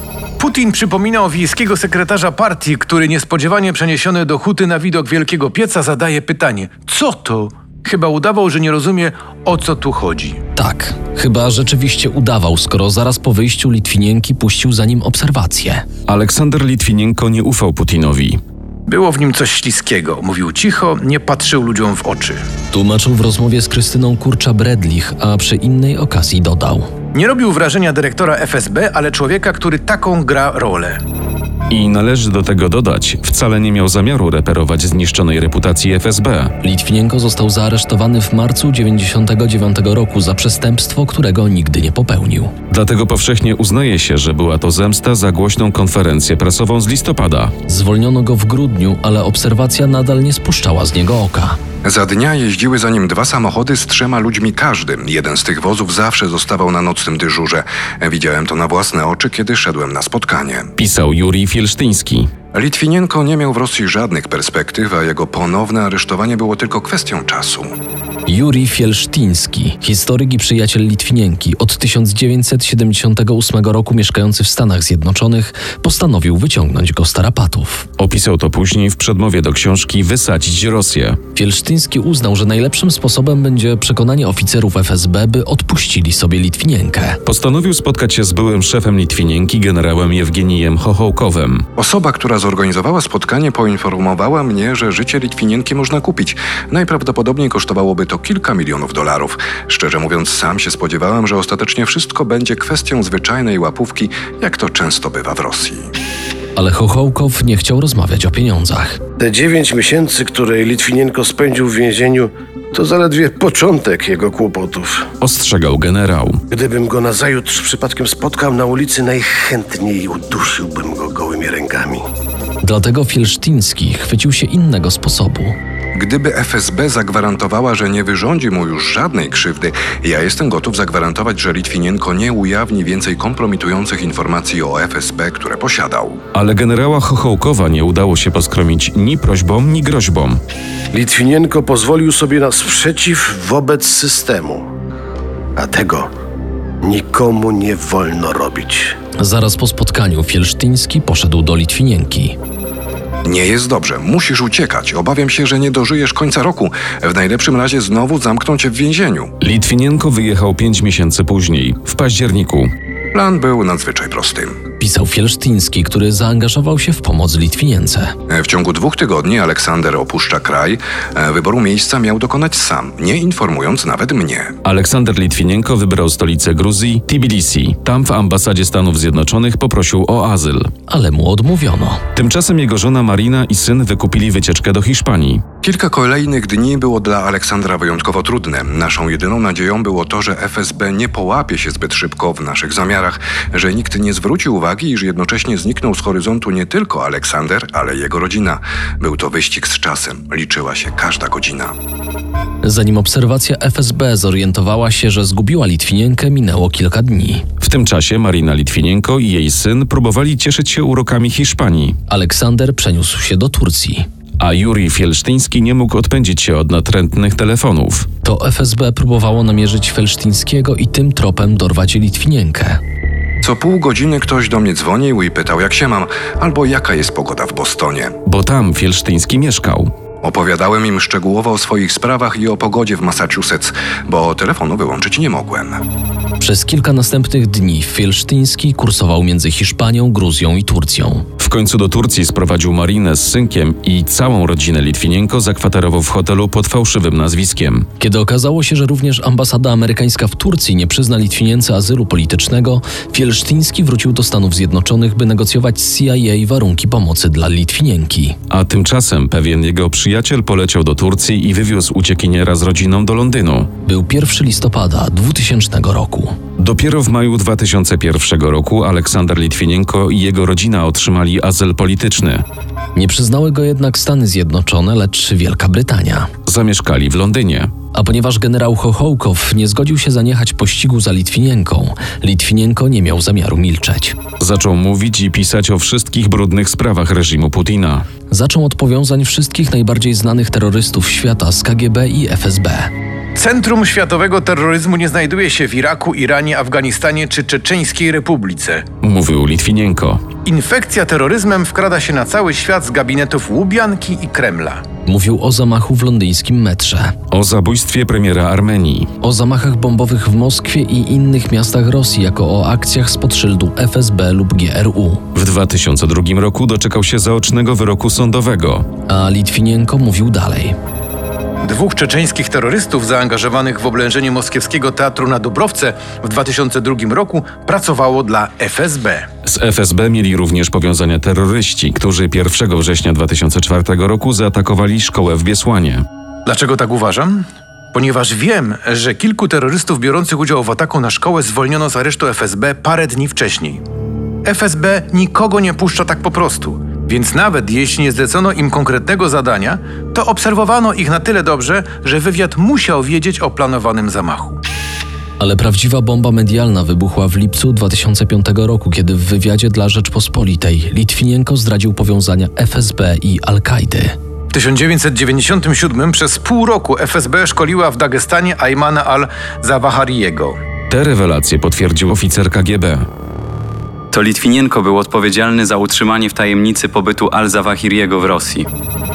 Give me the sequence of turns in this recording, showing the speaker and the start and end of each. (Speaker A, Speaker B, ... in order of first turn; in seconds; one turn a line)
Speaker A: 0.4-10.4
Speaker B: 10.6-15.8
Speaker C: 16.1-18.4
Speaker A: 18.9-22.4
Speaker B: 22.7-26.9
Speaker A: 27.1-31.0
Speaker C: 31.7-36.5
Speaker B: 36.6-42.5
Speaker C: 42.7-47.5
Speaker B: 47.7-51.6
Speaker D: 51.8-60.7
Speaker C: 60.8-62.3
Speaker D: 62.5-67.8
Speaker B: 68.3-77.9
Speaker C: 78.0-81.2
Speaker B: 81.3-87.2
Speaker C: 87.2-91.7
Speaker D: 91.8-105.9
Speaker B: 106.6-109.0
Speaker E: 109.2-115.1
Speaker C: 115.2-116.4
Speaker E: 116.5-122.0
Speaker B: 122.6-125.5
Speaker D: 126.0-136.2
Speaker C: 136.3-140.4
Speaker E: 140.9-144.7
Speaker E: 145.6-146.1
Speaker E: 146.8-149.0
Speaker B: 149.2-152.4
Speaker D: 153.2-159.3
Speaker C: 159.4-162.7
Speaker D: 163.1-164.6
Speaker B: 164.8-168.1
Speaker D: 168.3-174.5
Speaker C: 174.6-180.7
Speaker B: 180.9-182.0
Speaker C: 182.2-185.4
Speaker D: 185.6-201.8
Speaker B: 202.6-207.5
Speaker C: 207.6-212.0
Speaker B: 212.1-214.1
Speaker C: 214.4-218.1
Speaker B: 218.2-222.8
Speaker D: 223.4-228.2
Speaker C: 228.2-229.9
Speaker D: 230.2-235.8
Speaker B: 236.4-241.2
Speaker C: 241.4-247.9
Speaker B: 248.0-258.4
Speaker C: 258.5-263.7
Speaker B: 263.9-266.4
Speaker C: 266.6-272.4
Speaker B: 272.9-276.3
Speaker C: 276.5-277.7
Speaker B: 277.9-284.2
Speaker C: 284.4-288.1
Speaker B: 288.3-292.9
Speaker A: 293.4-298.8
Speaker C: 299.0-300.2
Speaker A: 300.5-304.8
Speaker B: 305.1-307.1
Speaker C: 307.3-309.1
Speaker B: 309.2-315.2
Speaker C: 315.4-318.9
Speaker B: 319.1-320.8
Speaker A: 321.6-329.2
Speaker C: 329.4-336.1
Speaker A: 336.5-343.8
Speaker A: 344.4-354.6
Speaker B: 355.4-364.1
Speaker A: 364.5-370.6
Speaker C: 370.9-373.1
Speaker F: 374.1-378.7